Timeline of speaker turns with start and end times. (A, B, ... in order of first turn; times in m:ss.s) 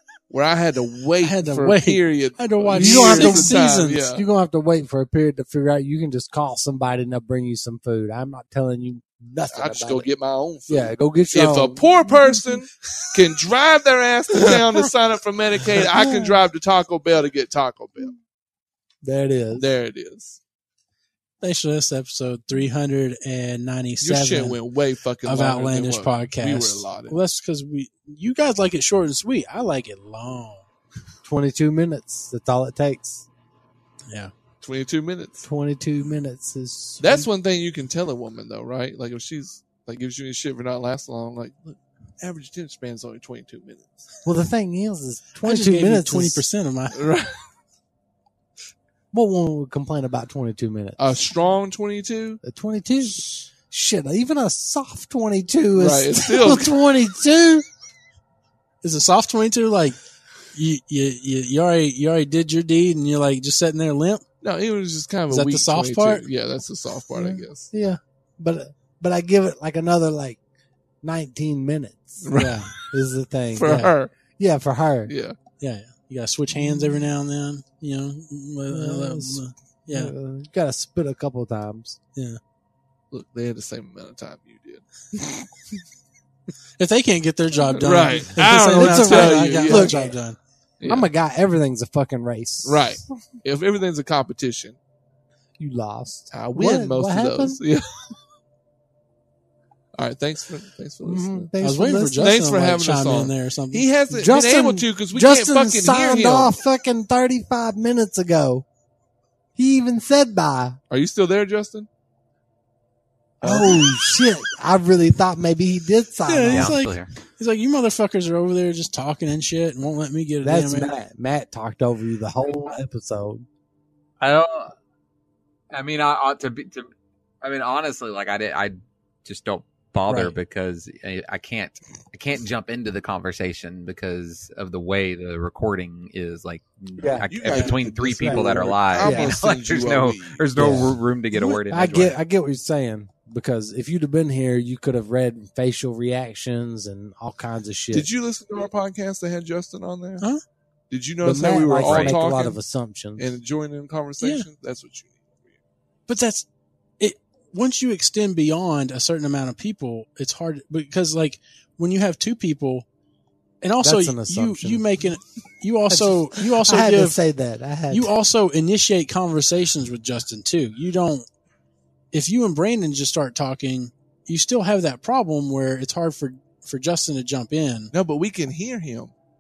0:00.3-0:04.2 A
0:01.2-0:04.0 B
0:02.7-0:10.1 C
0:09.5-0:18.1 A
0:10.7-0:12.5 C
0:14.4-0:14.9 C
0:15.7-0:16.4 C
0:19.0-0:19.6 C
0:19.6-0:20.4 A
0:21.4-0:24.6 B
0:24.0-0:27.2 A
0:25.2-0:30.7 B
0:31.2-0:33.3 C
0:34.6-0:35.4 A
0:35.4-0:37.3 C
0:37.0-0:44.1 A
0:44.2-0:46.4 C
0:45.4-0:47.0 B
0:46.9-0:47.4 A
0:49.1-0:51.0 C
0:51.0-0:52.4 A
0:52.4-0:57.7 C
0:55.8-0:56.8 A
0:58.8-1:00.0 B
1:00.5-1:04.2 B
1:04.4-1:07.7 A
1:05.3-1:06.3 B
1:07.2-1:10.4 C
1:11.0-1:15.1 C
1:12.2-1:12.9 A
1:12.3-1:12.7 B
1:13.6-1:14.1 A
1:13.6-1:13.9 B
1:15.1-1:15.4 A
1:15.6-1:20.1 B
1:16.5-1:17.1 C
1:18.7-1:22.0 C
1:23.1-1:24.8 A
1:25.1-1:25.5 C
1:26.8-1:30.4 B
1:27.8-1:30.0 A
1:27.8-1:30.2 C
1:30.8-1:33.2 C
1:32.6-1:34.8 A
1:35.6-1:37.6 C
1:36.3-1:38.2 A
1:40.0-1:41.5 A
1:41.0-1:42.2 C
1:41.6-1:43.9 B
1:42.2-1:46.6 A
1:44.1-1:48.6 C
1:49.6-1:50.8 C
1:50.9-1:51.9 A
1:53.4-1:53.9 A
1:53.4-1:56.8 C
1:56.2-2:00.9 B
1:56.5-1:57.1 D
2:00.4-2:03.5 C
2:04.2-2:04.7 D
2:05.7-2:06.9 D
2:07.4-2:22.2 D
2:10.1-2:10.4 C
2:17.0-2:19.4 C
2:17.3-2:20.8 A
2:20.6-2:28.1 C
2:27.9-2:30.2 A
2:30.9-2:32.6 A
2:31.2-2:33.3 C
2:31.8-2:32.2 D
2:33.2-2:35.5 A
2:34.2-2:34.5 B
2:36.1-2:36.5 B
2:37.0-2:42.9 B
2:43.6-2:47.2 B
2:43.8-2:44.9 C
2:45.9-2:48.1 C
2:47.9-2:51.3 B
2:52.1-2:57.9 B
2:57.9-2:59.1 A